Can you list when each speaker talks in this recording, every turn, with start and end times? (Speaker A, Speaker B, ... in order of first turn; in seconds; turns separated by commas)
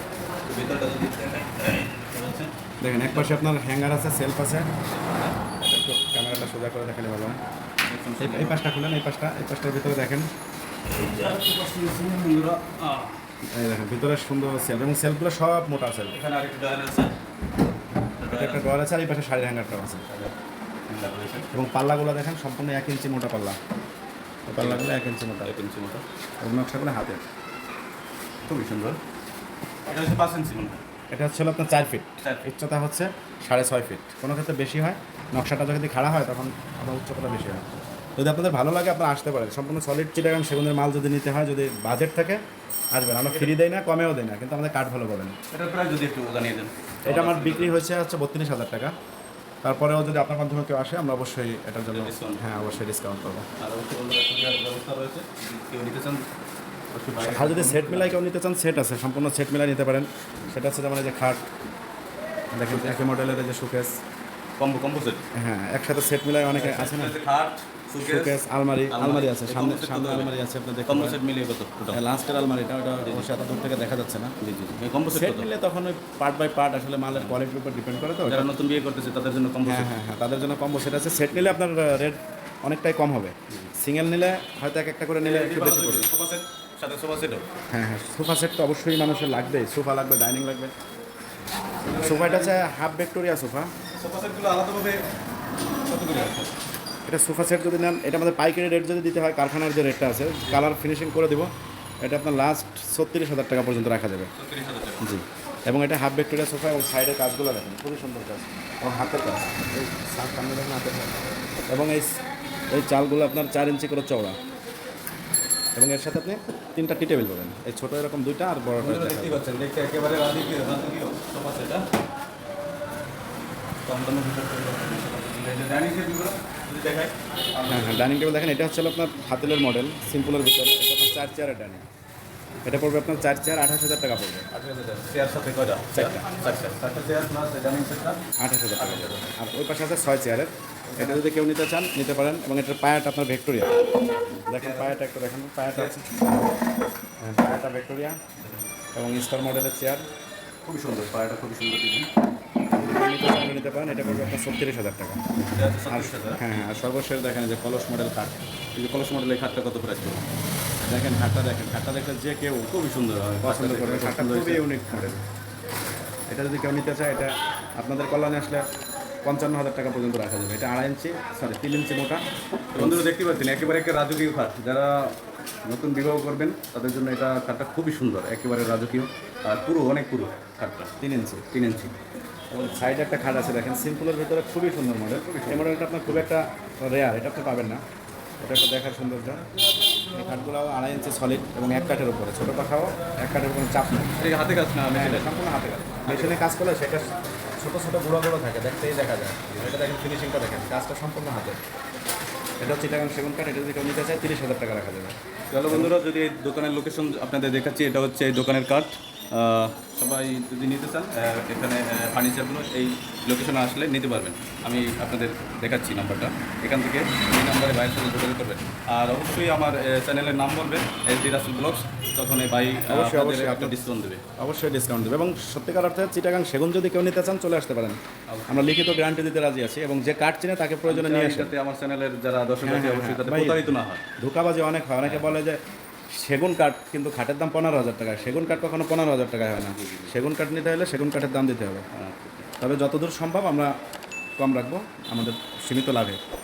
Speaker A: 0.5-3.5, Speaker B: 2.8-4.7, Speaker A: 4.9-5.4, Speaker B: 5.6-7.4, Speaker A: 7.8-8.6, Speaker B: 8.2-10.3, Speaker A: 10.9-13.2, Speaker B: 13.5-16.2, Speaker A: 16.1-17.2, Speaker A: 18.2-18.7, Speaker B: 18.3-20.1, Speaker A: 20.1-20.3, Speaker A: 20.9-21.5, Speaker B: 21.5-23.6, Speaker B: 24.5-25.5, Speaker A: 24.6-26.0, Speaker B: 26.4-27.3, Speaker A: 28.5-29.0, Speaker A: 29.9-30.8, Speaker B: 31.1-42.4, Speaker B: 42.9-45.4, Speaker A: 43.2-43.5, Speaker A: 45.5-47.8, Speaker B: 47.0-48.9, Speaker B: 49.6-53.5, Speaker A: 51.9-52.5, Speaker A: 53.6-56.2, Speaker A: 56.9-58.2, Speaker B: 57.2-61.5, Speaker B: 62.5-63.9, Speaker A: 62.7-63.1, Speaker A: 64.6-65.3, Speaker B: 65.3-67.2, Speaker A: 66.5-68.4, Speaker B: 68.0-71.2, Speaker A: 68.9-70.3, Speaker A: 70.9-72.0, Speaker B: 71.9-74.3, Speaker A: 73.0-73.3, Speaker A: 74.4-75.5, Speaker B: 75.1-78.5, Speaker A: 77.1-77.4, Speaker A: 78.3-79.9, Speaker B: 79.6-86.1, Speaker A: 85.2-87.5, Speaker B: 87.7-90.7, Speaker A: 91.8-92.6, Speaker B: 92.0-93.7, Speaker A: 94.0-95.0, Speaker A: 95.9-96.5, Speaker B: 97.1-104.3, Speaker A: 100.4-100.7, Speaker A: 104.4-105.1, Speaker B: 105.0-114.4, Speaker B: 115.8-119.4, Speaker A: 118.8-121.8, Speaker A: 123.8-128.1, Speaker B: 127.7-131.9, Speaker B: 132.7-134.5, Speaker A: 134.5-138.2, Speaker B: 135.9-136.3, Speaker B: 138.4-143.8, Speaker A: 138.8-139.3, Speaker A: 140.9-141.2, Speaker A: 144.3-145.0, Speaker B: 144.5-146.4, Speaker A: 145.7-146.0, Speaker B: 147.2-148.2, Speaker B: 148.9-150.1, Speaker A: 150.7-152.1, Speaker B: 152.7-155.2, Speaker A: 155.5-156.4, Speaker B: 155.9-158.4, Speaker A: 158.8-160.3, Speaker B: 160.8-162.4, Speaker A: 162.3-164.7, Speaker B: 163.4-165.2, Speaker B: 166.3-168.7, Speaker B: 169.2-172.2, Speaker A: 172.7-180.9, Speaker B: 172.8-173.1, Speaker B: 181.0-181.5, Speaker A: 181.5-181.9, Speaker B: 182.5-187.8, Speaker A: 185.1-186.2, Speaker B: 188.4-189.4, Speaker B: 190.1-194.2, Speaker A: 194.2-195.4, Speaker B: 194.9-201.6, Speaker A: 196.1-196.4, Speaker B: 202.6-205.2, Speaker A: 205.5-224.2, Speaker B: 222.9-223.9, Speaker B: 224.4-231.6, Speaker A: 228.3-228.8, Speaker A: 230.8-234.0, Speaker B: 232.6-233.7, Speaker B: 234.2-235.6, Speaker A: 235.0-235.4, Speaker B: 236.2-241.8, Speaker A: 238.3-238.6, Speaker A: 239.5-240.1, Speaker A: 241.9-242.5, Speaker B: 242.6-243.7, Speaker B: 244.4-246.2